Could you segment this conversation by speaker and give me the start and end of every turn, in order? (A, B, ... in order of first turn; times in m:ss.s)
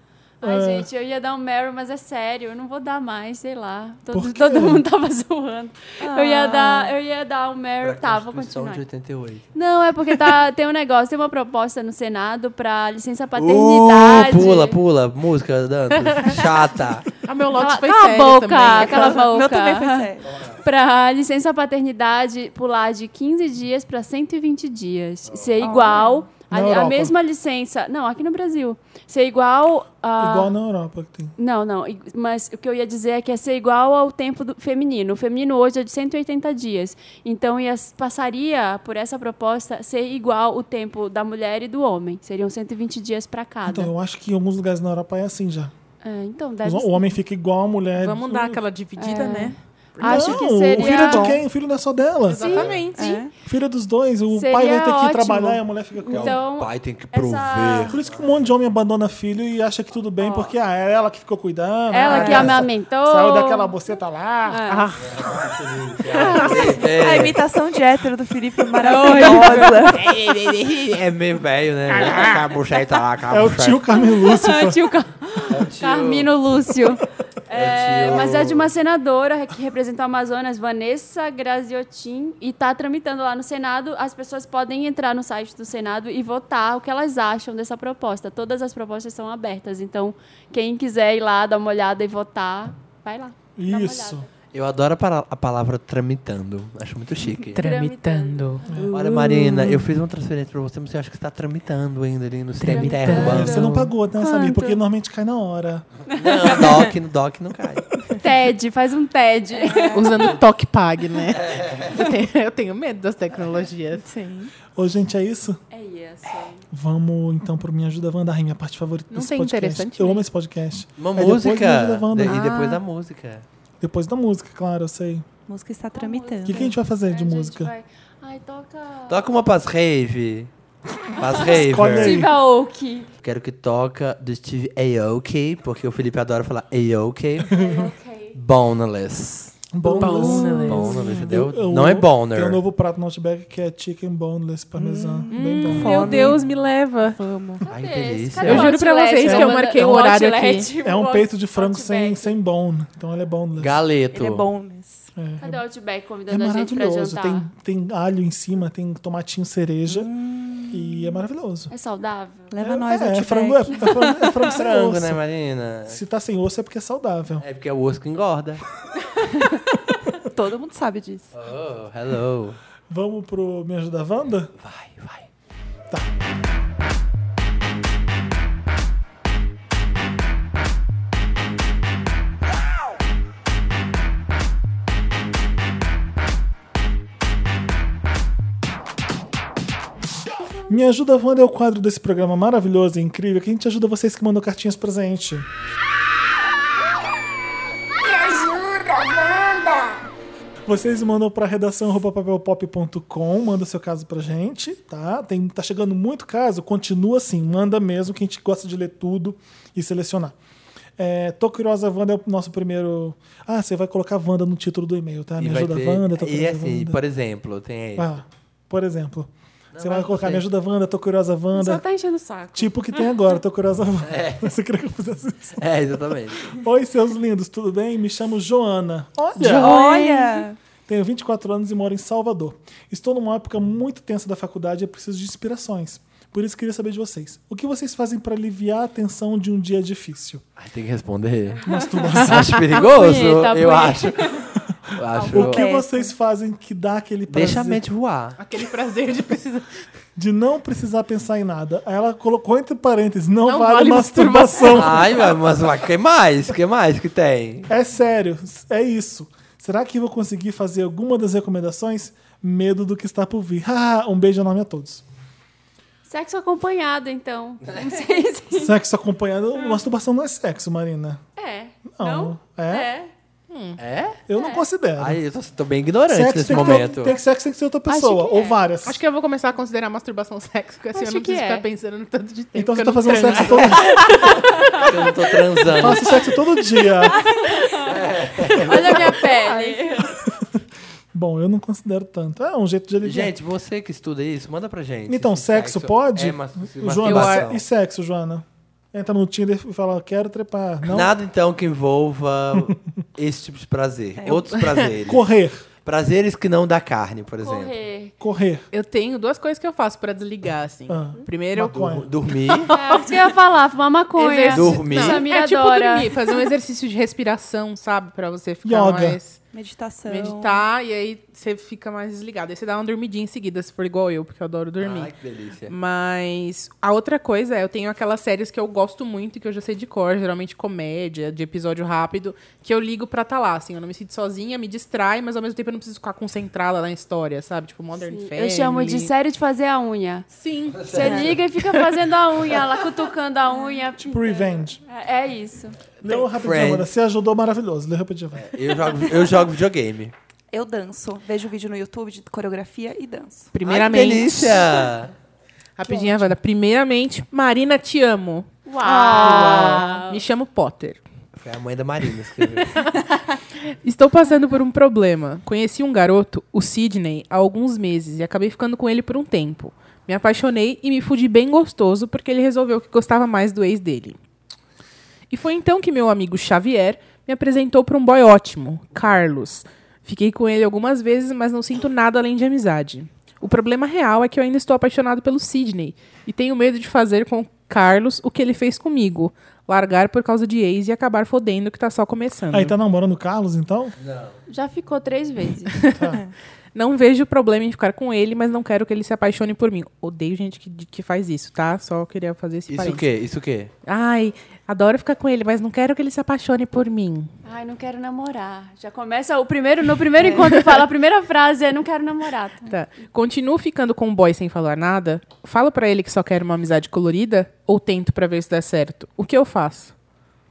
0:00.4-0:00.9 A
0:00.4-0:08.8 B
0:04.1-0:04.8 A
0:06.0-0:06.9 C
0:07.8-0:09.5 D
0:09.5-0:14.8 B
0:13.4-0:17.1 D
0:16.0-0:16.4 E
0:17.2-0:19.3 E
0:17.6-0:30.5 B
0:18.8-0:20.3 C
0:25.3-0:25.8 D
0:25.6-0:26.3 C
0:26.5-0:27.2 A
0:30.2-0:31.3 A
0:31.4-0:43.9 B
0:43.6-0:45.7 A
0:46.0-0:47.2 B
0:46.6-0:48.6 A
0:48.0-0:50.4 E
0:49.0-0:51.3 B
0:50.0-0:52.7 A
0:50.8-0:51.4 C
0:52.3-0:53.2 E
0:52.3-0:53.2 B
0:52.9-0:53.3 C
0:53.4-0:56.4 A
0:54.3-0:58.0 B
0:56.1-0:58.3 D
0:57.9-1:04.6 A
1:00.2-1:00.5 B
1:01.9-1:03.7 B
1:02.0-1:02.6 C
1:04.5-1:04.9 B
1:04.7-1:05.2 E
1:05.0-1:07.4 D
1:06.1-1:06.8 E
1:06.8-1:10.1 C
1:08.8-1:09.8 B
1:08.9-1:11.0 E
1:10.1-1:13.8 D
1:12.0-1:12.3 A
1:13.3-1:14.9 A
1:14.0-1:34.3 B
1:15.5-1:16.3 D
1:17.5-1:18.7 D
1:33.6-1:34.3 A
1:34.5-1:37.6 D
1:37.5-1:39.9 E
1:37.6-1:38.9 B
1:38.9-1:43.7 D
1:42.6-1:43.9 E
1:42.7-1:44.8 B
1:43.1-1:45.9 A
1:46.1-1:46.7 B
1:46.1-1:47.9 D
1:48.1-1:50.3 B
1:49.7-1:50.1 C
1:49.9-1:54.1 E
1:51.3-1:52.0 D
1:54.0-1:54.5 C
1:54.7-1:55.6 A
1:55.7-1:56.6 B
1:56.7-2:02.4 A
1:59.1-2:00.2 E
2:01.0-2:03.4 D
2:02.2-2:02.8 E
2:03.8-2:05.2 A
2:05.5-2:06.7 C
2:05.9-2:09.3 B
2:06.5-2:07.7 A
2:09.1-2:10.5 D
2:11.2-2:12.3 D
2:11.2-2:13.1 B
2:11.4-2:12.3 A
2:13.2-2:17.5 D
2:17.5-2:18.4 B
2:17.6-2:17.9 A
2:18.3-2:19.7 D
2:19.7-2:26.4 A
2:20.0-2:21.3 E
2:20.5-2:22.6 D
2:24.8-2:26.4 C
2:25.3-2:27.6 E
2:27.6-2:32.4 B
2:27.7-2:28.8 D
2:28.4-2:30.7 E
2:29.2-2:30.2 A
2:30.8-2:33.8 A
2:33.6-2:34.5 D
2:34.1-2:35.1 C
2:35.2-2:35.6 A
2:35.4-2:37.5 B
2:36.3-2:40.1 A
2:39.9-2:41.2 C
2:40.7-2:41.7 A
2:41.7-2:42.5 B
2:42.5-2:44.5 C
2:42.6-2:45.2 A
2:44.4-2:46.0 D
2:45.9-2:47.4 A
2:47.4-2:48.6 D
2:50.2-2:51.3 C
2:51.3-2:52.6 D
2:52.9-2:54.5 A
2:54.6-2:55.3 D
3:10.7-3:15.5 A
3:18.0-3:20.0 F
3:20.7-3:30.4 A
3:31.0-3:37.0 A
3:35.4-3:38.1 D
3:38.0-3:41.8 A
3:39.7-3:40.4 D
3:41.5-3:43.2 B
3:42.5-3:45.6 A
3:44.0-3:44.5 D
3:45.6-3:46.5 D
3:46.5-3:49.8 A
3:49.4-3:50.4 E
3:49.6-3:50.6 C
3:50.9-4:00.4 A
4:00.6-4:01.7 D
4:01.6-4:02.7 A
4:02.3-4:04.2 D
4:02.7-4:04.5 B
4:04.9-4:05.6 D
4:05.3-4:06.1 C
4:05.3-4:07.8 A
4:07.3-4:08.4 D
4:08.4-4:09.8 E
4:10.2-4:15.2 A
4:13.4-4:15.2 E
4:14.7-4:17.7 D
4:17.7-4:25.0 A
4:26.1-4:28.7 B
4:28.5-4:31.2 A
4:31.4-4:33.1 B
4:31.9-4:32.9 A
4:33.5-4:33.8 E
4:33.8-4:34.2 D
4:34.3-4:35.2 A
4:34.4-4:34.6 B
4:35.0-4:37.1 D
4:36.1-4:39.0 A
4:36.5-4:37.2 B
4:37.9-4:38.6 B
4:38.8-4:44.8 E
4:40.9-4:41.6 B
4:42.6-4:44.1 A
4:43.3-4:46.3 D
4:45.8-4:47.2 A
4:47.4-4:47.9 B
4:47.8-4:49.3 D
4:48.6-4:50.2 B
4:49.4-4:49.8 C
4:51.1-4:53.3 A
4:53.0-4:57.6 D
4:55.1-5:01.1 A
4:57.0-4:57.5 E
5:00.9-5:05.2 D
5:04.2-5:04.5 C
5:04.5-5:04.9 E
5:05.1-5:05.6 A
5:05.8-5:07.8 D
5:07.4-5:08.1 B
5:08.2-5:08.7 A
5:08.7-5:13.0 E
5:10.9-5:12.1 A
5:11.7-5:12.8 D
5:12.7-5:16.1 B
5:14.2-5:19.4 E
5:14.5-5:15.2 D
5:18.6-5:19.2 A
5:19.5-5:20.6 C
5:20.1-5:25.1 E
5:24.8-5:25.8 D
5:25.7-5:39.1 E
5:38.0-5:40.3 B
5:40.3-5:42.0 E
5:40.8-5:41.2 D
5:40.8-5:45.8 B
5:41.0-5:41.3 C
5:44.0-5:44.8 A
5:46.0-5:48.5 A
5:46.2-5:46.9 D
5:48.4-5:50.1 D
5:49.0-5:49.4 C
5:50.5-5:53.5 C
5:53.5-5:54.9 E
5:53.6-5:55.1 D
5:55.8-5:58.5 E
5:55.8-5:56.3 A
5:58.7-6:00.2 B
5:58.8-5:59.8 C
5:59.2-6:01.0 E
6:01.4-6:02.7 D
6:03.8-6:14.2 E
6:15.3-6:32.7 E
6:32.5-6:34.0 A
6:34.0-6:34.4 D
6:34.5-6:35.9 B
6:36.0-6:36.2 A
6:36.8-6:43.0 E
6:42.7-6:43.7 D
6:43.8-6:47.3 E
6:47.4-6:52.7 B
6:50.2-6:50.4 C
6:50.4-6:50.8 E
6:52.7-6:59.9 E